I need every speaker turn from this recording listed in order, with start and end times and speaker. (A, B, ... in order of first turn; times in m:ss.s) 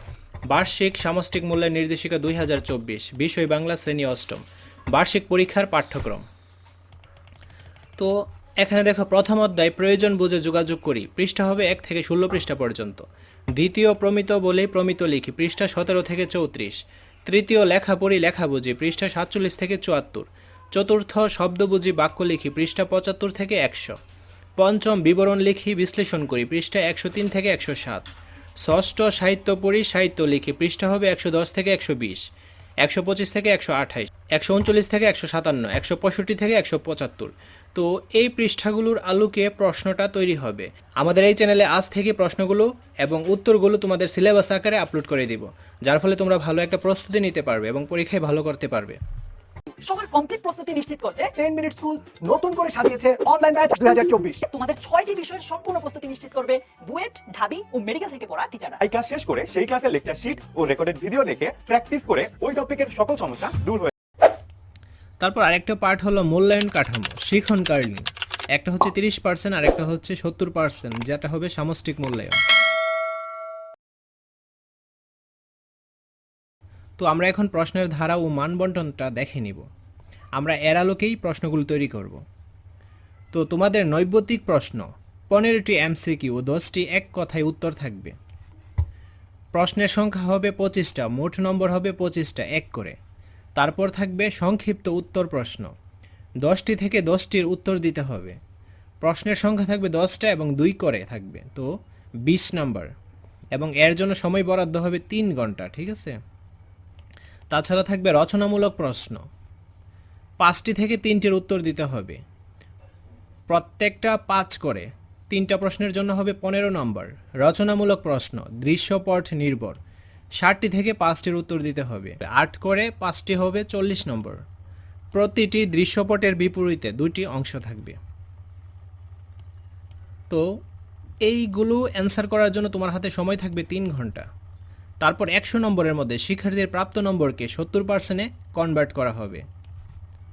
0:00.5-0:06.2 A
0:08.0-0:24.0 A
0:24.6-0:28.1 A
0:28.6-0:32.2 A
0:32.8-0:49.0 A
0:49.8-0:51.3 B
0:51.4-0:54.4 C
0:54.5-0:58.8 B
0:58.8-1:03.9 D
1:05.2-1:12.4 A
1:17.0-1:19.6 A
1:20.4-1:22.2 A
1:23.3-1:28.1 A
1:29.5-1:33.0 A
1:33.6-1:35.7 A
1:36.4-1:38.4 A
1:39.0-1:41.7 A
1:42.2-1:42.9 A
1:43.5-1:46.2 A
1:47.5-1:49.2 A
1:50.4-1:52.2 A
1:53.5-1:59.8 A
2:00.4-2:04.4 A
2:05.1-2:08.0 A
2:11.2-2:14.3 A
2:15.0-2:19.4 A